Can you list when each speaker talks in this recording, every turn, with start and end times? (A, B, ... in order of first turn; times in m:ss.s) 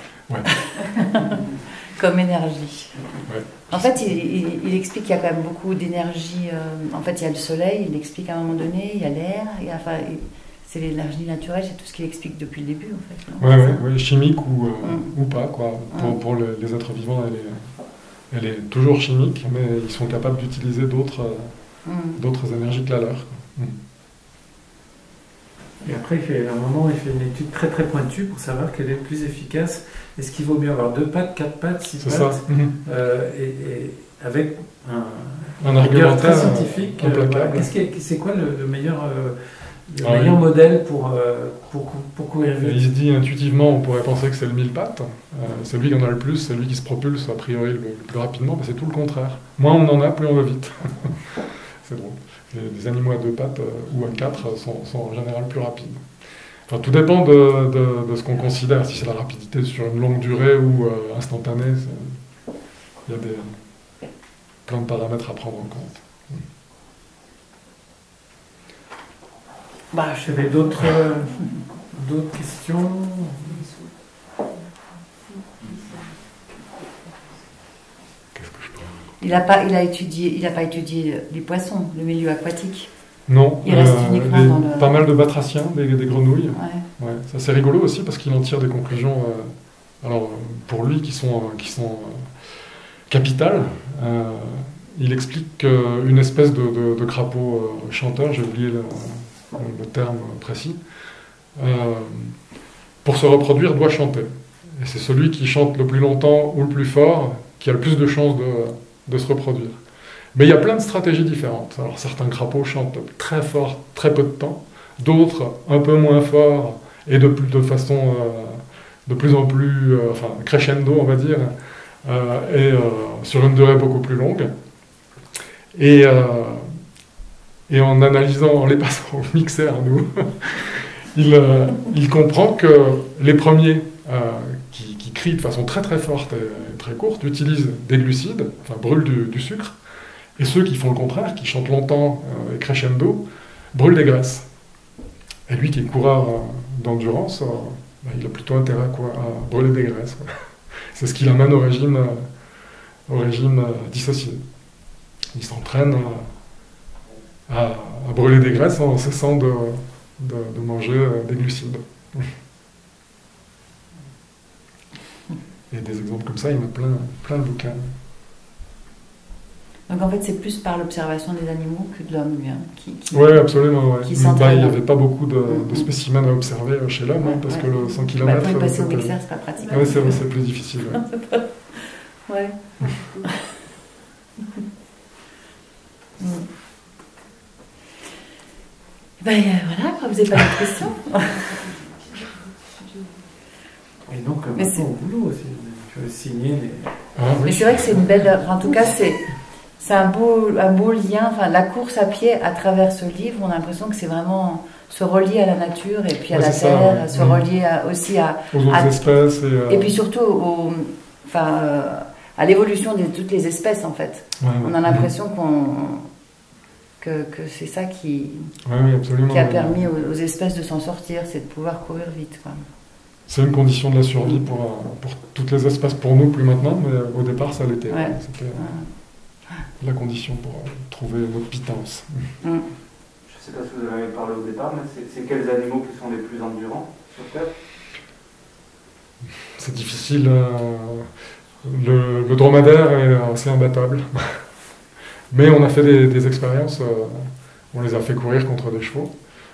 0:00.4-0:03.0 A
0:03.3-0:03.9 B
0:03.7-0:13.8 A
0:13.4-0:17.7 B
0:14.8-0:15.1 A
0:18.3-0:21.5 B
0:21.8-0:22.2 A
0:22.2-0:23.8 B
0:25.8-0:42.8 C
0:32.0-0:32.8 B
0:35.6-0:37.7 B
0:40.0-0:40.4 B
0:42.6-0:56.0 B
0:56.7-1:02.2 B
1:03.0-1:03.6 B
1:04.6-1:06.4 B
1:09.9-1:10.3 A
1:10.2-1:13.7 C
1:18.3-1:19.0 B
1:19.2-1:22.9 A
1:23.3-1:40.8 B
1:23.6-1:24.9 A
1:26.5-1:26.8 A
1:41.6-1:42.3 B
1:43.0-1:49.8 B
1:50.3-2:01.5 B
2:02.0-2:04.5 B
2:05.7-2:06.8 B
2:07.7-2:19.7 B
2:20.4-2:23.2 B
2:23.7-2:24.5 B
2:25.5-2:30.3 B
2:30.9-2:32.3 B
2:33.1-2:34.4 B
2:35.3-2:36.3 B
2:37.5-2:42.3 B
2:45.7-2:47.9 B
2:49.9-2:53.4 A
2:53.1-2:59.1 B
2:54.0-2:54.8 A
2:55.5-2:55.8 A
2:57.2-3:00.2 A
2:59.7-3:01.0 B
3:01.1-3:03.5 A
3:06.2-3:06.5 A
3:09.2-3:11.7 A
3:14.1-3:17.0 C
3:17.2-3:18.1 B
3:17.4-3:19.2 A
3:19.8-3:29.2 A
3:26.3-3:27.4 B
3:28.5-3:29.9 B
3:29.7-3:36.1 A
3:34.4-3:35.1 B
3:37.0-3:38.5 A
3:38.6-3:39.8 B
3:39.3-3:42.6 A
3:43.3-3:48.7 B
3:47.9-3:48.9 A
3:49.8-3:52.2 B
3:53.3-3:57.5 D
3:59.6-4:01.1 B
4:01.6-4:04.4 B
4:05.3-4:09.1 B